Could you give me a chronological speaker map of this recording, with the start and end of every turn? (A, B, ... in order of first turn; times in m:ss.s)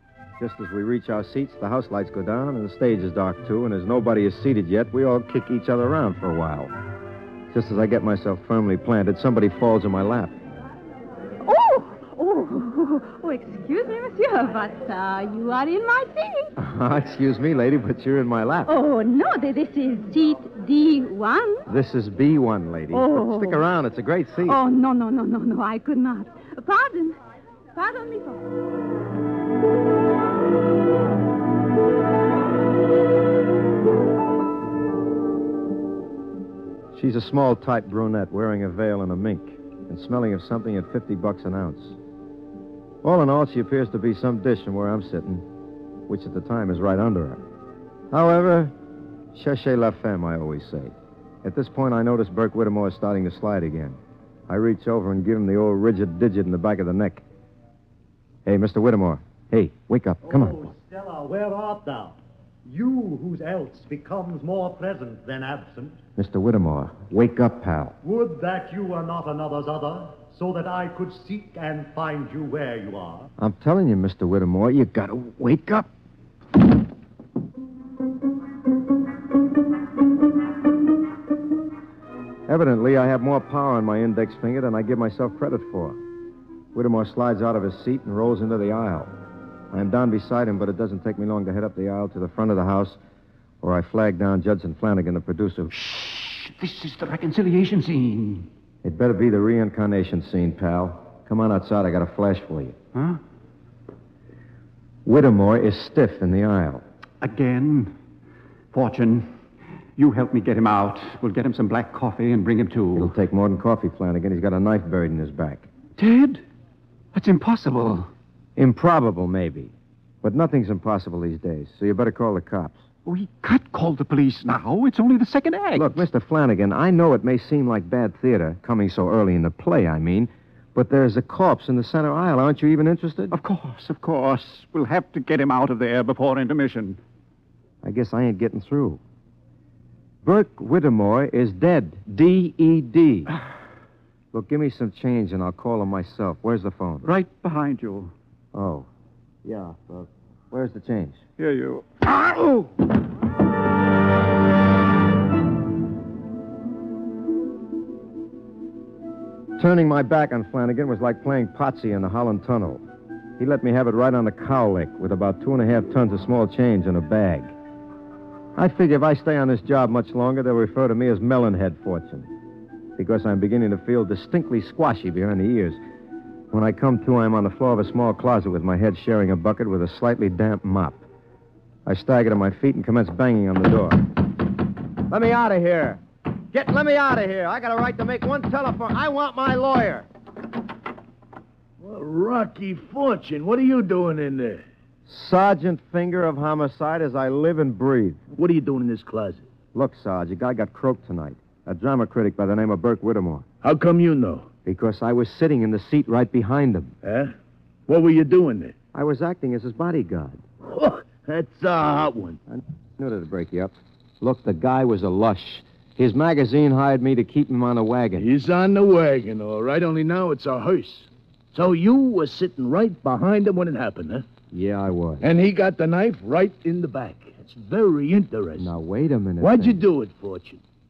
0:00.4-0:06.7 A
0:07.5-0:10.4 A
0:11.4-0:16.5 B
0:16.6-0:18.7 A
0:18.7-0:21.7 B
0:21.7-0:24.6 A
0:22.9-0:23.6 B
0:24.4-0:27.2 B
0:27.8-0:28.4 B
0:36.9-0:42.0 A
0:43.0-0:45.5 A
0:46.1-0:47.4 A
0:48.1-0:48.7 A
0:49.3-0:57.2 A
0:58.4-1:00.7 A
1:00.2-1:06.0 C
1:06.2-1:08.0 A
1:08.0-1:13.3 C
1:13.4-1:15.9 A
1:22.5-1:26.0 A
1:26.7-1:29.1 A
1:29.7-1:33.0 A
1:33.6-1:35.7 A
1:35.7-1:38.5 D
1:38.8-1:42.8 A
1:42.9-1:43.2 D
1:45.0-1:46.8 A
1:47.2-1:48.0 D
1:48.7-1:49.3 D
1:50.0-1:53.1 D
1:53.0-1:55.7 A
1:56.0-1:56.4 D
1:57.1-1:58.1 D
1:58.6-2:02.8 A
2:03.1-2:06.0 D
2:05.8-2:13.4 A
2:13.3-2:17.0 D
2:17.8-2:19.0 A
2:20.2-2:23.3 A
2:24.3-2:27.1 A
2:27.0-2:28.1 D
2:28.5-2:28.9 A
2:29.4-2:31.2 A
2:31.4-2:32.8 D
2:39.6-2:42.8 A
2:43.4-2:47.5 A
2:48.6-2:52.3 A
2:53.0-2:55.8 A
2:56.5-3:01.0 A
3:01.9-3:04.1 A
3:05.1-3:10.1 A
3:11.8-3:14.6 E
3:15.1-3:18.2 A
3:18.3-3:19.4 E
3:19.7-3:23.5 A
3:23.6-3:24.5 E
3:24.6-3:26.9 A
3:27.0-3:27.3 E
3:27.9-3:28.7 E
3:28.9-3:30.4 A
3:30.7-3:32.4 E
3:32.5-3:38.3 A
3:38.2-3:44.2 E
3:44.5-3:45.3 A
3:45.2-3:48.7 E
3:48.6-3:49.8 A
3:49.4-3:50.6 E